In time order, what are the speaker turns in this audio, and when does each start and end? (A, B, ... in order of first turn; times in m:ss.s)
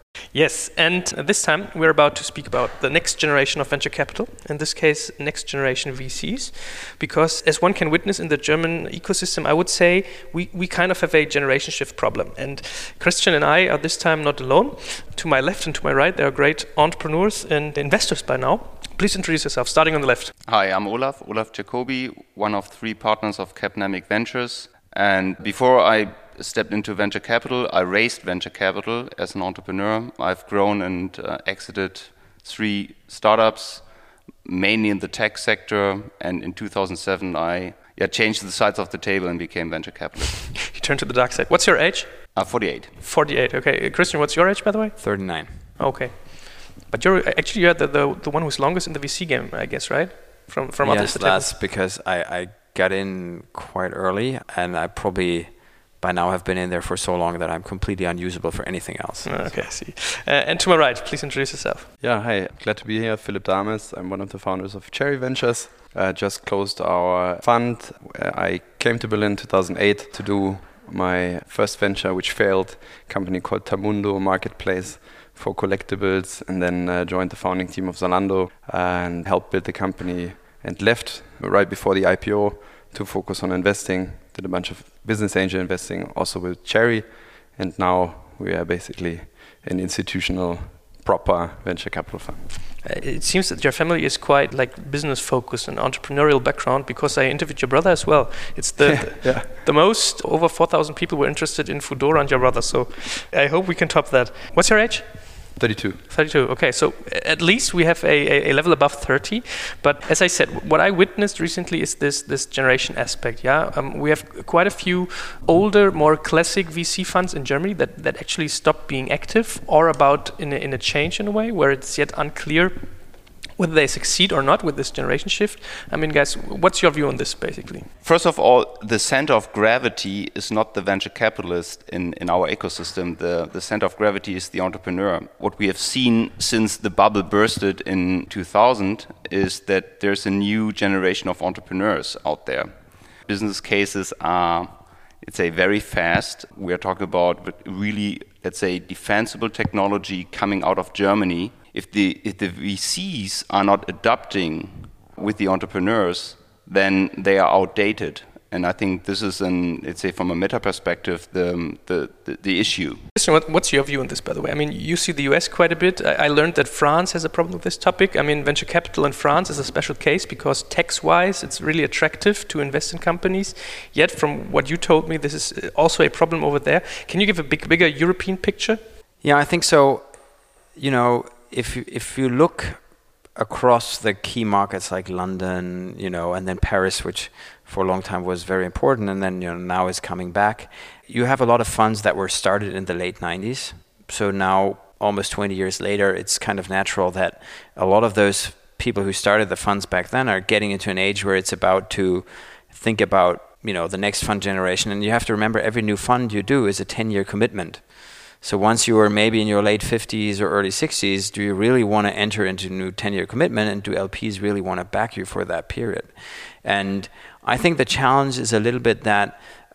0:00.3-0:20.3 A
0:20.5-0:33.8 B
0:34.4-0:40.6 B
0:40.6-0:42.2 A
0:42.3-0:42.9 B
0:43.0-0:45.0 A
0:45.0-0:45.6 C
0:45.8-0:51.5 A
0:50.8-0:59.6 C
0:59.2-1:01.9 A
1:02.0-1:32.4 D
1:32.8-1:45.5 A
1:38.8-1:39.5 D
1:45.6-1:46.0 D
1:46.1-2:02.9 A
2:03.6-2:07.9 A
2:08.0-2:22.7 B
2:23.3-2:43.0 B
2:43.2-2:58.8 A
2:59.2-3:00.1 C
3:00.8-3:02.8 C
3:03.4-3:39.4 C